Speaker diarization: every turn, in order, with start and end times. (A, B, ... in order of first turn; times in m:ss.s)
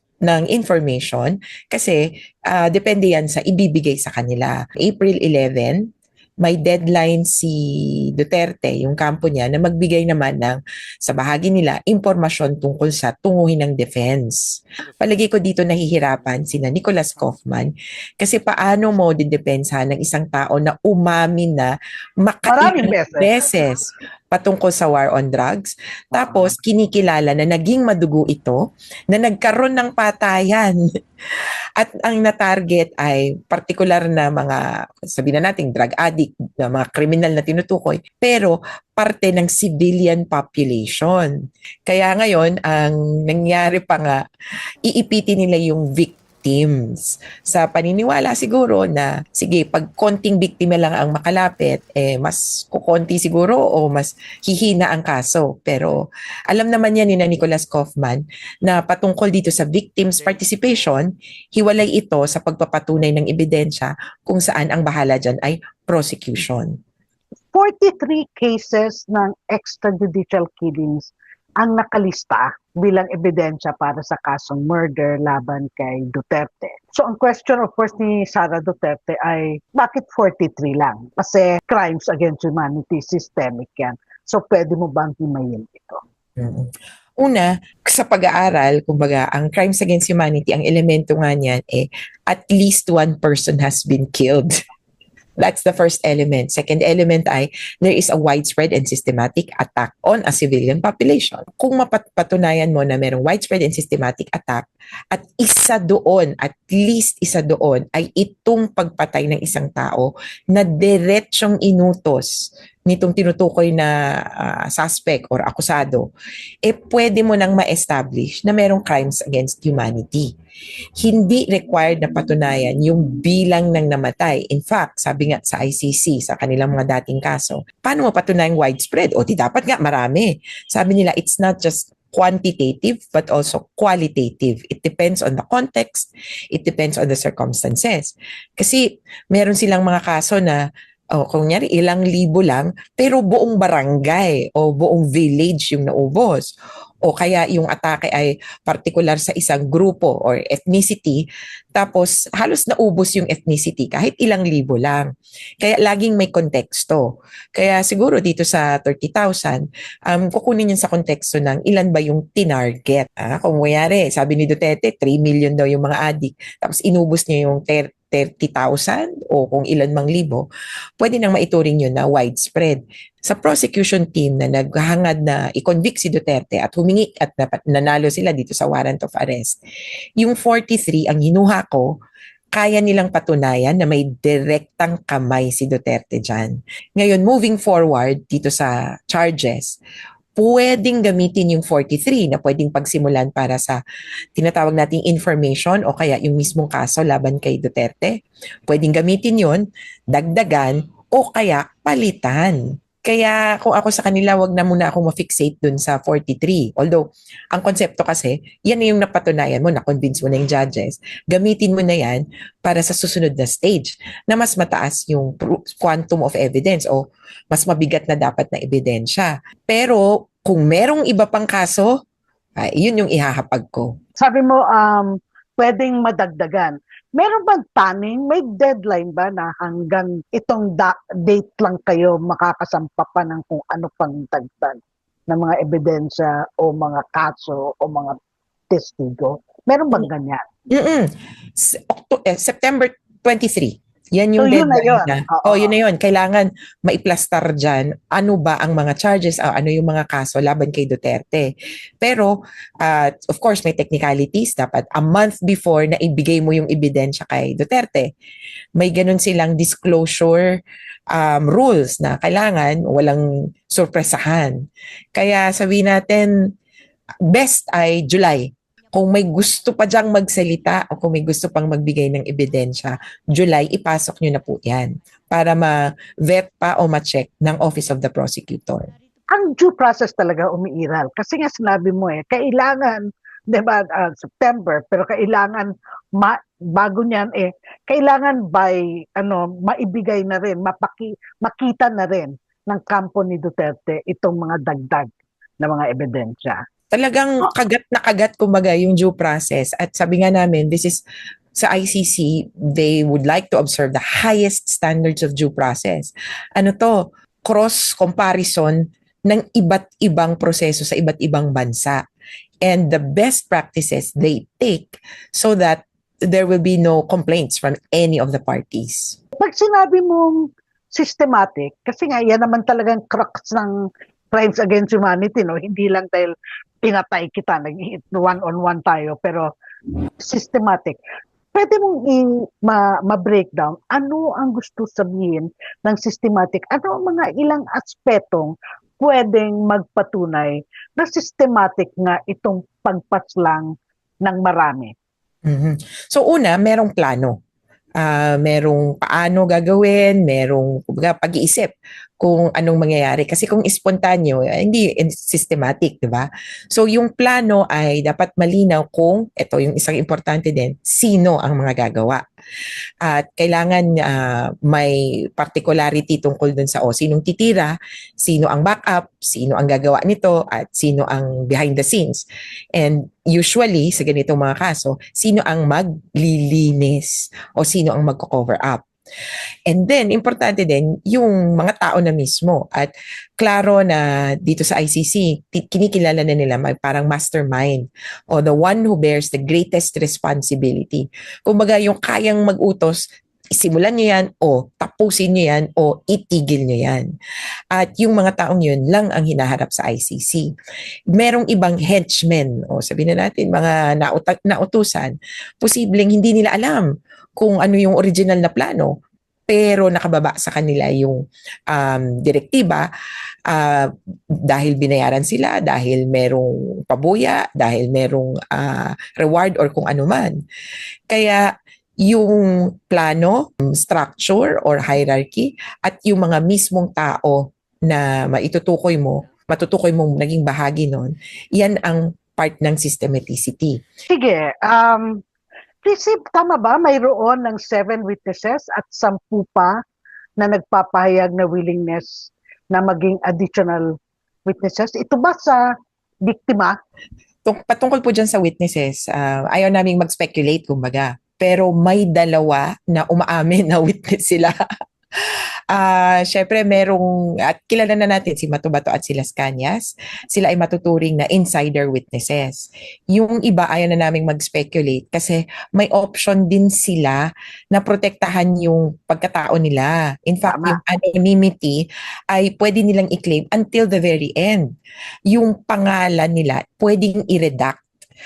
0:00.2-0:05.8 A
0:06.4-0:07.6 A
0:08.1-0:14.4 A
0:15.0-0:21.7 A
0:22.2-0:28.6 A
0:22.5-0:23.3 B
0:26.1-0:26.4 B
0:29.1-0:30.8 A
0:31.8-0:41.3 A
0:41.9-0:44.2 A
0:44.8-0:55.9 A
0:56.5-1:06.8 A
1:07.5-1:26.0 B
1:26.4-1:26.7 A
1:27.2-1:34.5 A
1:35.4-1:52.3 A
1:52.9-1:56.0 A
1:56.6-2:00.3 A
2:01.0-2:20.6 A
2:21.1-2:26.5 A
2:27.0-2:31.2 A
2:31.7-2:35.1 A
2:35.6-2:37.0 A
2:37.6-2:50.4 A
2:51.0-2:59.6 A
3:00.2-3:02.0 A
3:02.5-3:09.8 A
3:10.4-3:13.8 A
3:14.4-3:41.9 A
3:42.6-3:43.9 A
3:44.2-3:58.2 B
3:58.7-4:00.4 B
4:00.7-4:11.5 A
4:04.4-4:05.7 B
4:12.0-4:18.1 A
4:18.8-4:20.6 A
4:21.1-4:24.6 A
4:25.2-4:26.3 A
4:27.3-4:38.9 A
4:39.3-4:55.1 B
4:55.6-4:56.6 B
4:56.9-5:01.0 A
5:01.6-5:06.9 A
5:07.5-5:12.0 A
5:12.6-5:19.2 A
5:19.4-5:23.7 B
5:24.3-5:26.3 B
5:26.8-5:29.5 B
5:30.2-5:31.0 B
5:31.5-5:43.7 B
5:44.2-5:44.9 B
5:45.4-5:47.4 A
5:48.0-6:02.2 A
6:03.0-6:12.2 A
6:12.8-6:18.8 A
6:19.7-6:33.0 A
6:33.5-6:37.1 A
6:37.7-6:40.5 A
6:41.1-6:46.9 A
6:47.4-6:48.9 A
6:49.5-6:51.2 A
6:51.7-6:52.9 A
6:53.5-6:53.9 A
6:54.5-7:00.3 A
7:01.1-7:01.5 A
7:02.0-7:13.8 A
7:14.1-7:15.2 B
7:15.8-7:19.8 B
7:20.4-7:25.6 B
7:26.2-7:26.8 B
7:27.4-7:34.5 A
7:35.2-7:54.7 A
7:50.5-7:50.8 B
7:55.3-7:57.8 A